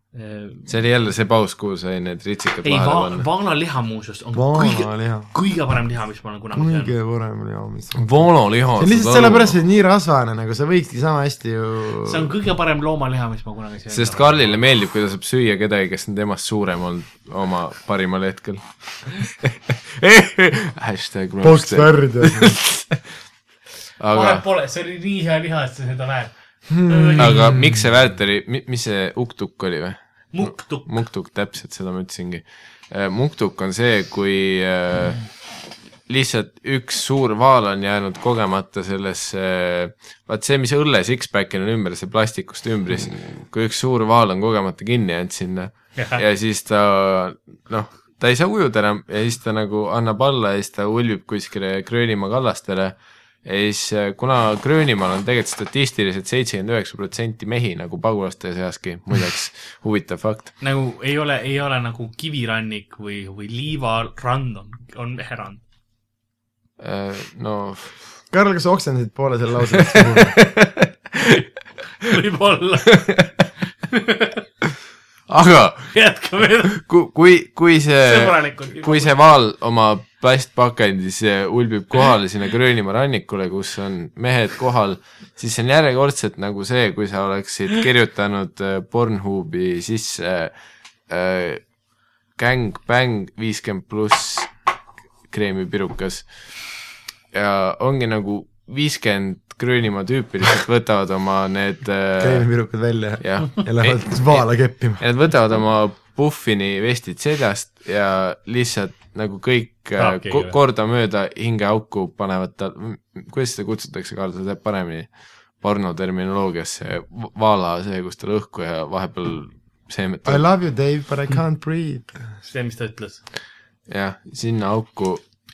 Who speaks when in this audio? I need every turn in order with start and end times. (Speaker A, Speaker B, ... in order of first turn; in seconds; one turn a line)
Speaker A: 0.1-0.7
Speaker B: 0.7-3.3
Speaker A: 2.6-6.9
Speaker C: 4.3-5.3
Speaker C: 6.5-8.1
Speaker B: 8.0-9.6
Speaker C: 8.8-12.3
Speaker A: 12.0-14.6
Speaker B: 13.9-23.1
Speaker C: 21.4-22.6
Speaker B: 24.0-24.4
Speaker A: 24.1-26.3
Speaker C: 26.7-27.9
Speaker A: 26.9-27.6
Speaker B: 27.2-35.3
Speaker A: 30.3-31.0
Speaker B: 36.1-60.5
Speaker A: 46.0-46.2
Speaker A: 60.6-65.6
Speaker B: 66.8-68.0
Speaker C: 68.3-70.4
Speaker B: 69.9-71.5
Speaker A: 72.0-73.2
Speaker B: 73.0-73.3
Speaker A: 73.8-74.5
Speaker B: 75.3-75.9
Speaker A: 75.9-76.8
Speaker B: 76.7-90.5
Speaker A: 78.1-79.2
Speaker B: 91.1-91.6
Speaker B: 92.4-94.5
Speaker B: 95.3-96.3
Speaker B: 97.3-102.5
Speaker C: 102.2-105.0
Speaker B: 103.2-120.5
Speaker A: 110.0-110.5
Speaker C: 120.2-122.3
Speaker A: 122.4-123.2
Speaker B: 123.9-125.2